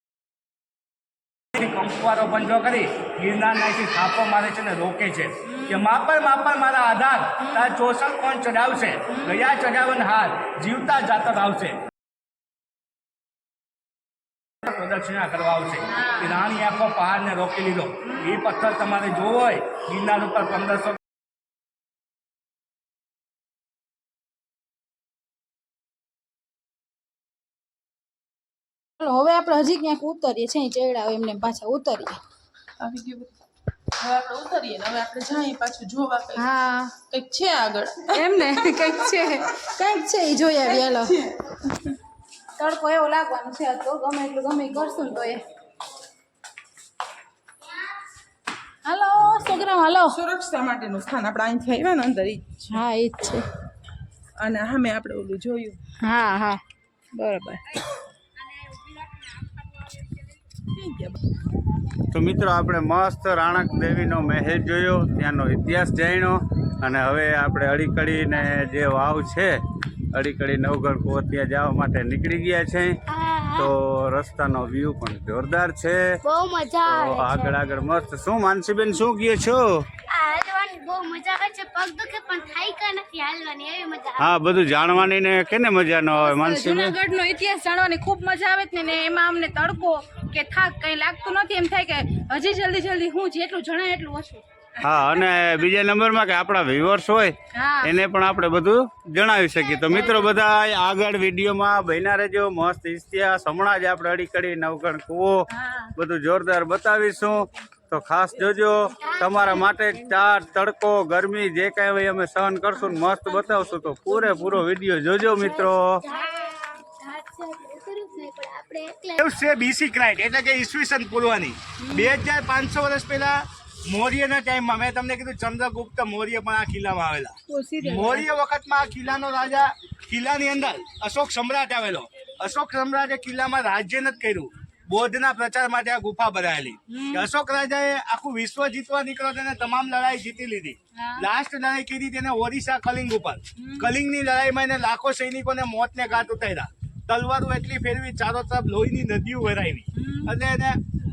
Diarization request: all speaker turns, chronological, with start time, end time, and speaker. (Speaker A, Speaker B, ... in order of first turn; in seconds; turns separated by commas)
Speaker A: 1.5-11.8, Speaker B: 5.5-5.8, Speaker B: 7.4-7.7, Speaker B: 9.1-9.4, Speaker A: 14.6-21.0, Speaker B: 15.8-16.4, Speaker B: 29.0-32.2, Speaker C: 32.8-33.3, Speaker C: 33.9-36.4, Speaker B: 36.3-37.0, Speaker C: 37.0-38.2, Speaker B: 38.1-41.2, Speaker C: 40.7-41.9, Speaker B: 42.5-45.4, Speaker B: 48.8-50.2, Speaker C: 50.1-52.7, Speaker B: 52.7-53.5, Speaker C: 54.4-55.8, Speaker B: 56.0-56.6, Speaker B: 57.1-57.8, Speaker C: 60.7-61.2, Speaker D: 62.1-69.6, Speaker D: 70.1-73.0, Speaker E: 73.1-73.7, Speaker D: 73.5-76.2, Speaker E: 76.2-77.5, Speaker D: 76.8-79.9, Speaker E: 80.1-84.2, Speaker D: 84.2-86.9, Speaker B: 86.1-94.4, Speaker D: 94.8-116.0, Speaker B: 97.5-98.0, Speaker B: 105.5-105.9, Speaker E: 116.1-119.2, Speaker A: 119.2-150.8, Speaker B: 121.8-122.1, Speaker B: 127.5-128.3, Speaker B: 136.9-137.3, Speaker B: 140.9-141.2, Speaker B: 143.6-143.9, Speaker B: 149.9-150.3